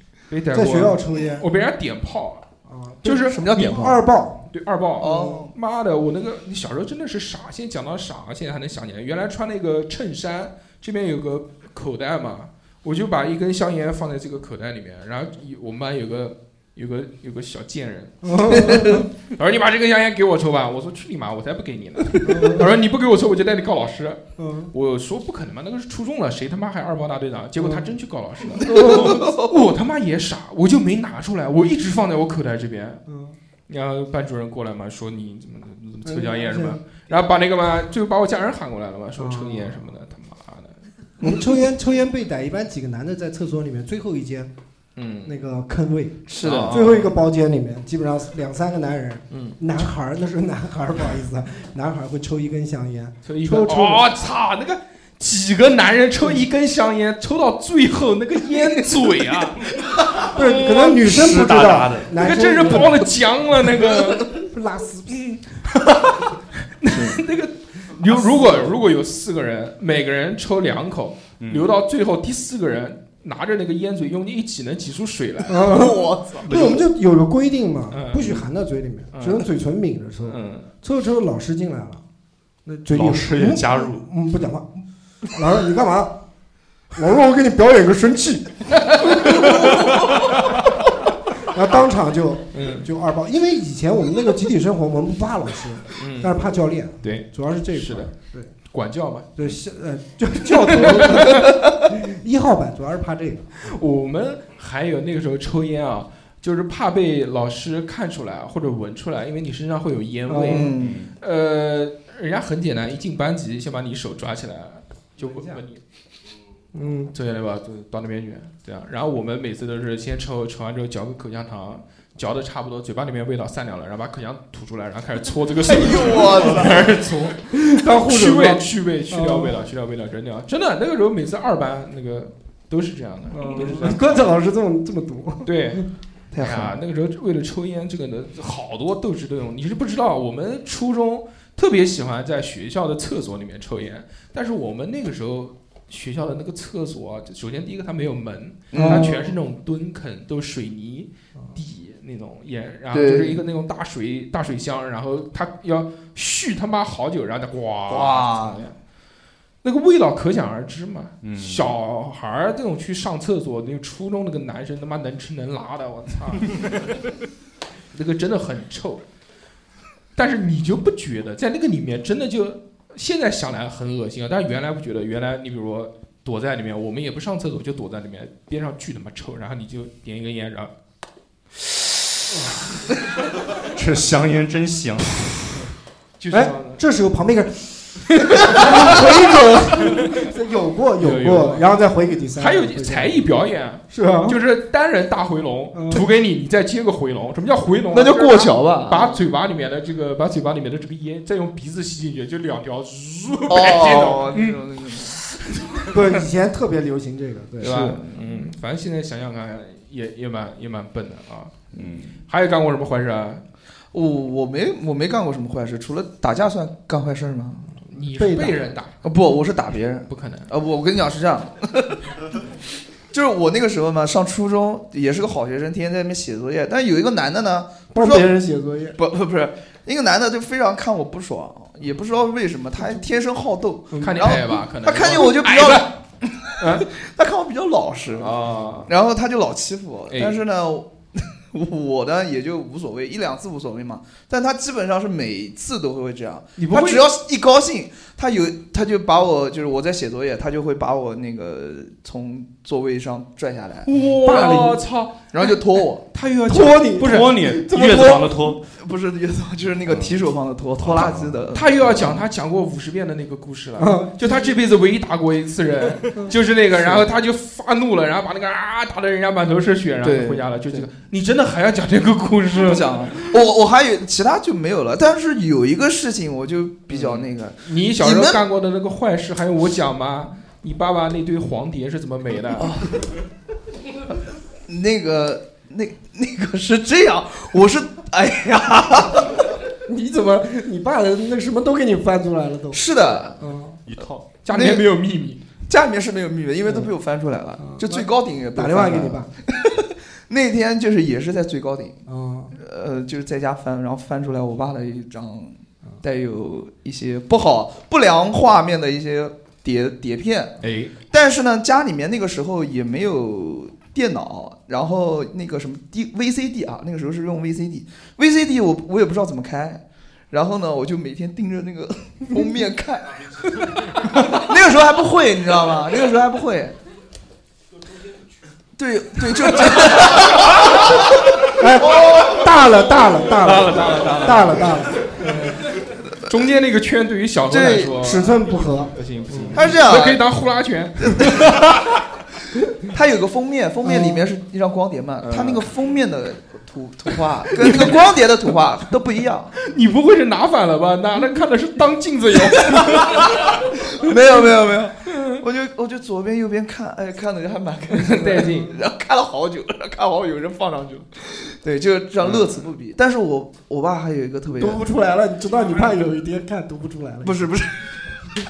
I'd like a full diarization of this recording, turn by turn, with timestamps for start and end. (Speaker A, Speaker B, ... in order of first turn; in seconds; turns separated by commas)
Speaker A: 0.3-2.5, Speaker B: 0.5-1.5, Speaker B: 2.7-4.5, Speaker A: 3.0-3.9, Speaker C: 3.3-4.0, Speaker A: 4.5-33.0, Speaker C: 5.0-5.5, Speaker B: 18.2-19.1, Speaker B: 22.2-22.7, Speaker B: 24.4-24.7, Speaker B: 27.6-27.9, Speaker C: 28.6-29.5, Speaker B: 28.7-29.1, Speaker B: 33.1-33.4, Speaker A: 33.7-40.9, Speaker B: 36.0-36.8, Speaker B: 39.2-39.9, Speaker B: 41.2-44.5, Speaker A: 45.0-45.4, Speaker B: 45.2-54.0, Speaker C: 46.3-46.9, Speaker A: 46.4-47.1, Speaker A: 49.3-49.6, Speaker A: 53.2-59.8, Speaker B: 60.3-63.1, Speaker A: 60.4-60.7, Speaker D: 60.7-62.2, Speaker A: 62.2-64.3, Speaker B: 64.3-65.2, Speaker A: 65.1-65.4, Speaker A: 66.8-75.6, Speaker B: 68.1-68.7, Speaker D: 71.4-71.7, Speaker B: 75.5-82.0, Speaker C: 75.6-76.8, Speaker D: 76.5-76.8, Speaker A: 77.9-78.5, Speaker A: 79.1-79.5, Speaker A: 80.2-80.7, Speaker B: 82.7-86.2, Speaker D: 82.9-84.1, Speaker B: 87.0-90.0, Speaker A: 88.9-89.3, Speaker B: 91.4-98.5, Speaker A: 92.5-92.9, Speaker A: 96.0-96.4, Speaker A: 97.0-98.2, Speaker A: 98.7-99.4, Speaker B: 99.4-103.5, Speaker A: 100.7-101.5, Speaker A: 103.6-115.8, Speaker B: 110.3-110.7, Speaker C: 110.5-111.0, Speaker D: 110.7-111.1, Speaker B: 115.2-115.6, Speaker B: 116.7-117.1, Speaker A: 117.1-134.3, Speaker B: 125.7-126.7, Speaker C: 125.7-126.9, Speaker B: 127.5-129.6, Speaker B: 133.3-135.8, Speaker A: 135.4-135.8, Speaker C: 136.3-136.8, Speaker A: 136.4-158.8, Speaker C: 148.7-149.1, Speaker B: 148.7-149.3, Speaker C: 152.9-153.4, Speaker C: 157.9-158.6, Speaker A: 159.6-166.8, Speaker D: 161.2-161.7, Speaker A: 167.9-169.0, Speaker A: 170.2-180.7, Speaker D: 183.7-185.6, Speaker A: 186.2-186.8, Speaker B: 186.3-193.3, Speaker A: 191.0-191.7, Speaker A: 192.3-204.6, Speaker B: 193.9-194.4, Speaker B: 195.7-196.1, Speaker C: 197.9-199.2, Speaker C: 203.5-205.2, Speaker B: 205.9-207.9, Speaker C: 207.6-208.2, Speaker A: 207.6-211.6, Speaker D: 211.7-212.2, Speaker A: 212.3-213.4, Speaker C: 213.9-217.7, Speaker A: 217.9-219.0, Speaker B: 218.2-218.7, Speaker C: 219.0-222.1, Speaker A: 220.1-220.5, Speaker C: 223.1-228.3, Speaker B: 227.9-229.0, Speaker C: 229.0-253.9, Speaker B: 233.9-234.5, Speaker A: 234.0-235.9, Speaker A: 236.6-236.9, Speaker A: 238.2-238.9, Speaker A: 240.1-240.4, Speaker A: 246.6-247.1, Speaker A: 253.9-255.5, Speaker B: 254.0-254.8, Speaker C: 255.3-256.0, Speaker A: 256.1-256.9, Speaker B: 256.5-258.4, Speaker D: 256.9-258.6, Speaker C: 258.7-262.2, Speaker D: 259.9-260.2, Speaker D: 260.8-261.5, Speaker A: 261.5-273.2, Speaker B: 263.8-264.5, Speaker C: 270.0-270.9, Speaker C: 272.6-278.4, Speaker A: 276.9-282.7, Speaker C: 282.6-283.1, Speaker C: 284.7-289.4, Speaker B: 289.9-293.8, Speaker C: 292.7-293.4, Speaker D: 293.9-294.3, Speaker A: 294.4-295.4, Speaker C: 294.5-294.9, Speaker C: 295.7-302.0, Speaker B: 296.6-296.9, Speaker B: 297.6-299.3, Speaker B: 302.1-302.6, Speaker C: 302.6-310.6, Speaker A: 310.6-310.9, Speaker C: 311.1-326.8, Speaker C: 328.8-330.9, Speaker B: 331.5-335.5, Speaker C: 331.8-332.6, Speaker A: 333.4-334.7, Speaker C: 333.7-334.6, Speaker A: 335.2-335.5, Speaker A: 336.2-341.6, Speaker C: 337.5-338.0, Speaker B: 338.0-339.6, Speaker C: 339.5-340.2, Speaker C: 341.2-341.8, Speaker C: 342.9-349.5, Speaker B: 343.8-344.2, Speaker A: 345.2-345.7, Speaker A: 347.6-348.0, Speaker A: 349.6-353.3, Speaker C: 352.6-364.8, Speaker A: 355.1-355.4, Speaker A: 357.9-358.7, Speaker B: 364.6-367.5, Speaker C: 367.2-367.8